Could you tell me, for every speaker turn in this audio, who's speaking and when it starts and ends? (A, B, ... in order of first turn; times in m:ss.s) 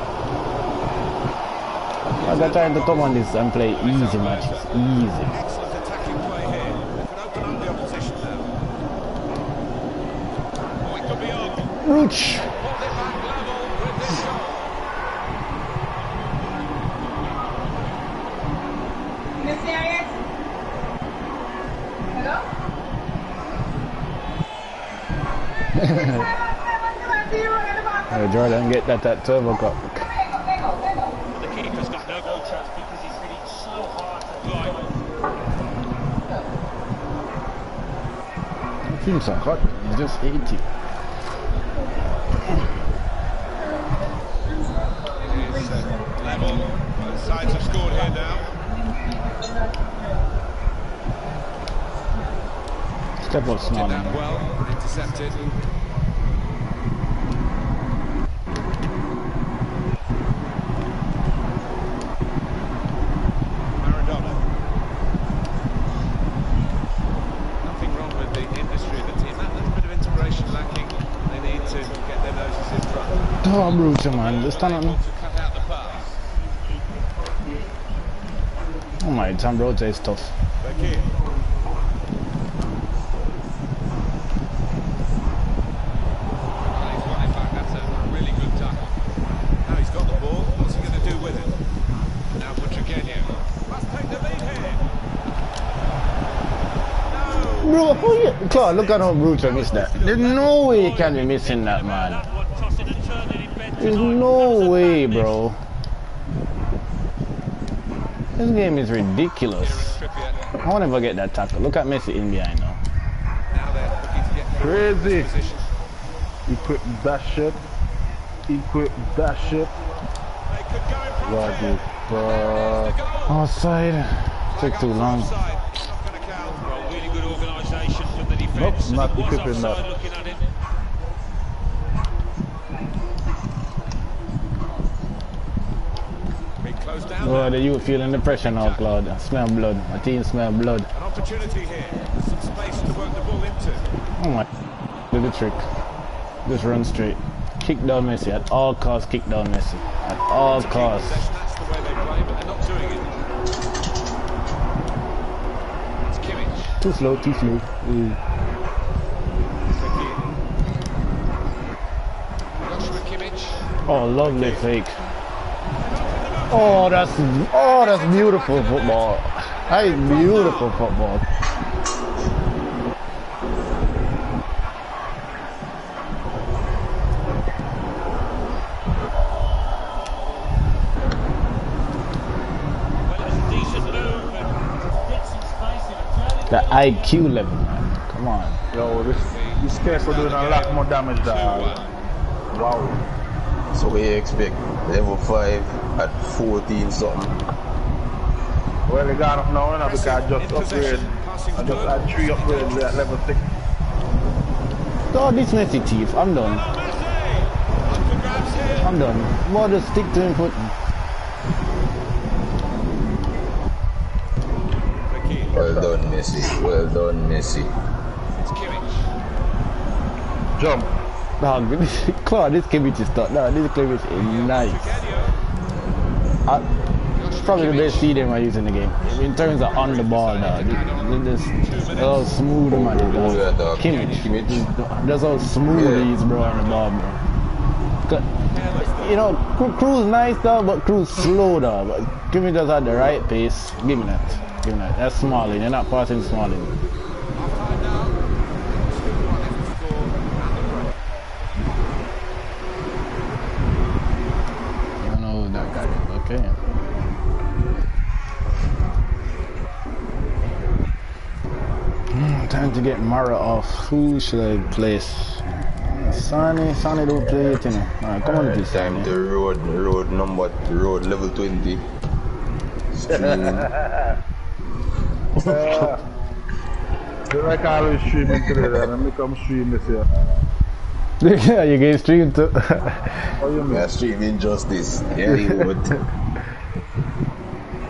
0:02.2-0:08.5 A
0:02.2-0:05.4 B
0:10.8-0:11.7 A
0:11.8-0:12.5 B
0:12.5-0:14.6 A
0:19.4-0:20.2 C
0:22.1-0:22.5 C
0:25.7-0:28.1 C
0:28.1-0:30.0 B
0:30.0-0:31.2 C
0:31.3-0:35.0 D
0:38.9-0:40.6 B
0:44.6-0:46.6 C
0:45.2-0:48.5 A
0:47.2-0:50.2 C
0:53.2-0:54.3 B
0:53.6-0:55.4 A
1:03.8-1:04.4 A
1:07.6-1:16.2 A
1:13.4-1:15.0 B
1:19.0-1:20.3 B
1:20.6-1:21.1 A
1:26.6-1:29.0 A
1:29.6-1:31.6 A
1:32.4-1:34.9 A
1:37.1-1:40.3 A
1:37.6-1:42.2 B
1:40.0-1:45.4 D
1:43.8-1:45.6 B
1:48.4-1:50.0 B
1:49.6-1:50.5 A
1:50.6-1:52.8 B
1:53.5-1:55.7 A
1:54.6-1:55.3 E
1:56.5-1:57.6 E
1:58.5-1:59.7 E
2:00.5-2:03.4 A
2:01.2-2:03.0 E
2:03.3-2:05.3 B
2:04.5-2:06.9 A
2:06.6-2:10.4 D
2:08.7-2:09.8 E
2:16.6-2:17.6 A
2:17.2-2:20.9 B
2:18.2-2:19.0 A
2:20.9-2:23.9 A
2:24.2-2:24.5 B
2:25.1-2:25.6 B
2:26.5-2:31.2 B
2:30.5-2:33.1 A
2:36.1-2:36.8 A
2:36.8-2:38.2 B
2:39.8-2:40.2 A
2:42.6-2:44.6 A
2:43.9-2:44.9 B
2:45.8-2:50.8 A
2:46.5-2:51.2 B
3:03.0-3:07.1 D
3:06.5-3:08.6 B
3:08.7-3:11.8 E
3:08.7-3:11.9 A
3:12.5-3:13.0 E
3:13.7-3:17.4 F
3:18.9-3:23.4 E
3:19.8-3:23.0 A
3:25.1-3:26.6 B
3:26.4-3:29.0 A
3:28.8-3:30.7 B
3:35.1-3:35.6 A
3:35.5-3:37.7 F
3:35.6-3:35.9 E
3:38.4-3:39.1 A
3:40.6-3:40.9 E
3:41.4-3:45.0 B
3:44.2-3:45.4 A
3:47.2-3:48.1 A
3:47.2-3:57.2 B
3:49.1-3:52.4 A
3:52.7-3:54.6 F
3:53.0-3:54.3 A
3:55.7-3:56.1 F
3:56.3-3:56.9 A
3:58.4-3:59.3 A
3:58.8-4:06.7 B
4:07.4-4:11.0 A
4:15.0-4:16.6 B
4:22.1-4:29.1 B
4:28.2-4:31.8 F
4:32.9-4:33.7 F
4:33.1-4:34.0 E
4:35.4-4:36.0 E
4:35.4-4:35.9 F
4:37.3-4:40.1 E
4:38.3-4:38.9 F
4:41.2-4:43.3 B
4:43.4-4:43.9 E
4:43.7-4:46.0 F